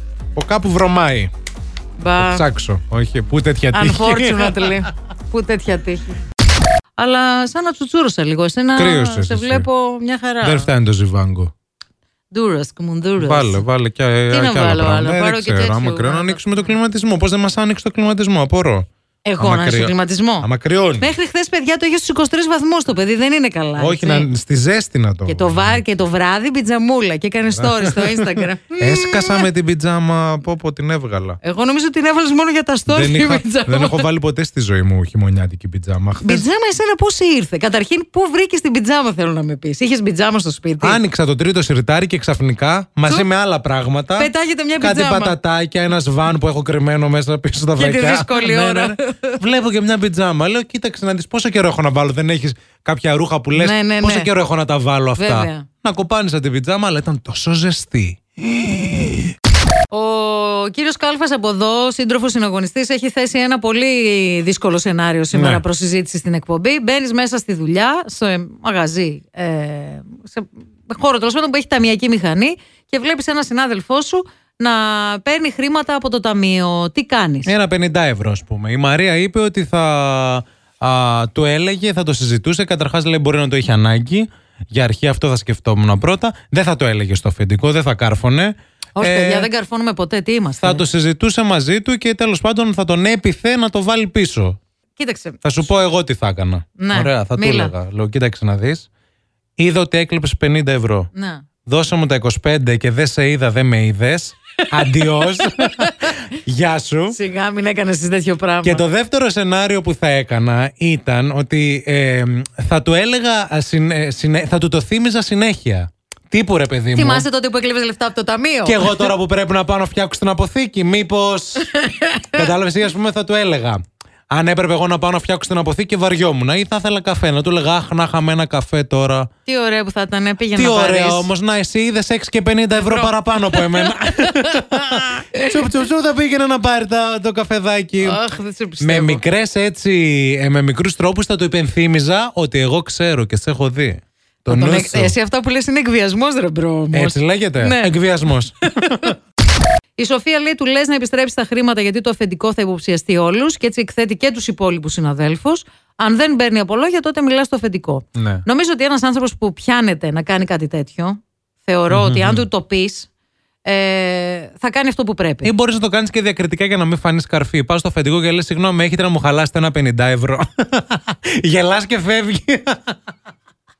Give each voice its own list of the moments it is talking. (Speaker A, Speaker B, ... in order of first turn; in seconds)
Speaker A: 0.3-1.3, 2.2-4.8, 8.8-9.7, 10.4-11.5, 13.2-18.9, 19.4-21.1, 23.8-25.8, 27.5-31.4, 32.9-36.5, 40.8-59.3, 65.3-65.6, 77.5-89.5, 90.6-94.6, 95.4-98.9, 99.6-101.1, 101.7-107.2, 108.6-117.2, 118.7-121.7, 122.3-129.3, 130.6-138.2, 138.8-145.1, 146.9-149.1, 158.1-158.4, 161.9-162.4, 165.4-173.0
Speaker B: 2.0-2.5, 3.7-6.2, 7.0-10.7, 12.3-13.6, 14.3-16.7, 19.2-20.5, 21.0-24.3, 25.3-29.5, 31.4-34.1, 36.2-41.0, 44.1-45.3, 47.8-49.4, 53.5-54.3, 55.2-55.7, 59.9-77.5, 89.0-90.8, 95.0-95.4, 96.8-97.7, 101.1-101.4, 104.8-106.1, 107.1-108.8, 116.9-119.1, 121.7-122.5, 129.4-131.3, 132.8-135.6, 138.0-139.2, 144.5-148.0, 148.9-149.1, 150.0-163.1, 163.6-165.5